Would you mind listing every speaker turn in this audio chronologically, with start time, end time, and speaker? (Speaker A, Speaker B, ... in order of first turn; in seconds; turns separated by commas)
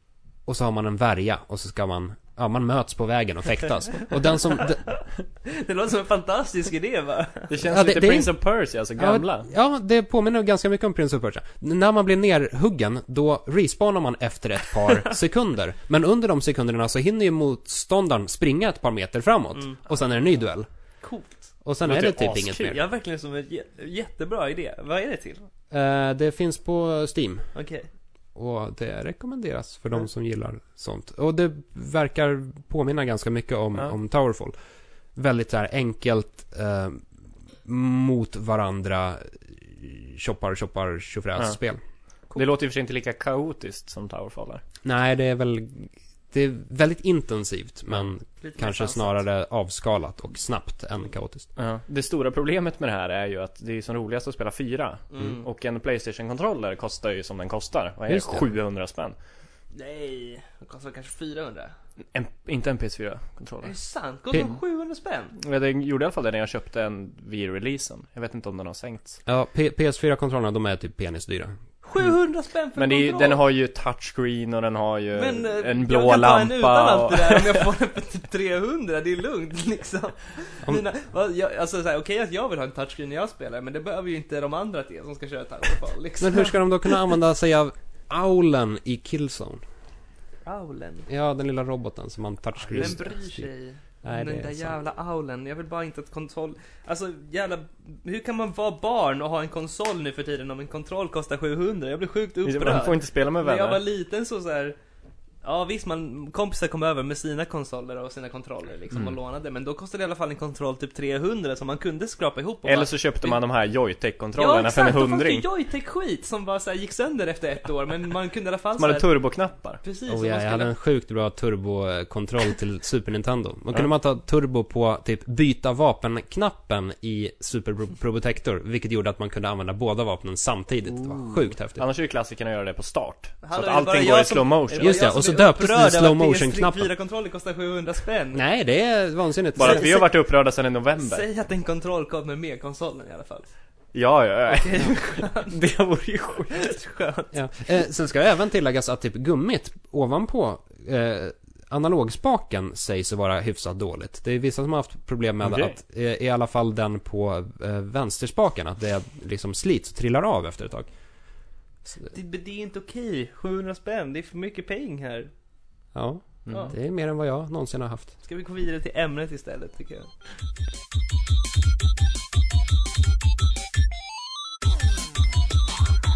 Speaker A: 0.4-4.9, Speaker B: 4.6-7.5, Speaker C: 7.5-9.5, Speaker A: 7.7-8.3, Speaker A: 9.0-20.7, Speaker B: 19.6-19.8, Speaker B: 21.0-21.5, Speaker A: 21.6-22.8, Speaker C: 21.9-22.8, Speaker B: 22.6-25.5, Speaker A: 25.7-27.5, Speaker B: 27.5-27.9, Speaker A: 28.3-34.5, Speaker A: 35.1-37.0, Speaker A: 37.6-41.8, Speaker C: 42.3-44.6, Speaker A: 44.8-51.5, Speaker B: 48.4-49.2, Speaker C: 51.5-59.1, Speaker B: 55.1-55.5, Speaker A: 58.1-58.5, Speaker B: 59.7-61.7, Speaker C: 62.1-63.7, Speaker B: 63.6-65.3, Speaker C: 65.3-69.2, Speaker A: 69.2-71.5, Speaker B: 71.8-73.4, Speaker C: 72.8-77.7, Speaker B: 75.1-86.9, Speaker A: 86.2-89.6, Speaker B: 90.4-91.1, Speaker A: 91.1-93.5, Speaker B: 92.7-104.8, Speaker A: 94.0-94.8, Speaker C: 102.4-103.8, Speaker B: 105.4-113.4, Speaker C: 112.6-115.4, Speaker B: 114.4-119.1, Speaker C: 118.8-119.8, Speaker B: 119.8-120.7, Speaker A: 120.1-131.8, Speaker C: 130.9-135.0, Speaker B: 133.4-138.4, Speaker A: 134.8-136.9, Speaker A: 138.3-139.9, Speaker C: 139.6-141.2, Speaker B: 139.6-140.1, Speaker B: 141.0-143.5, Speaker C: 143.9-146.7, Speaker B: 144.5-145.6, Speaker B: 146.5-147.3, Speaker A: 147.3-160.9, Speaker C: 155.4-155.7, Speaker B: 162.1-165.3, Speaker A: 165.9-168.1, Speaker C: 166.4-166.7, Speaker B: 166.5-166.7, Speaker B: 168.2-170.1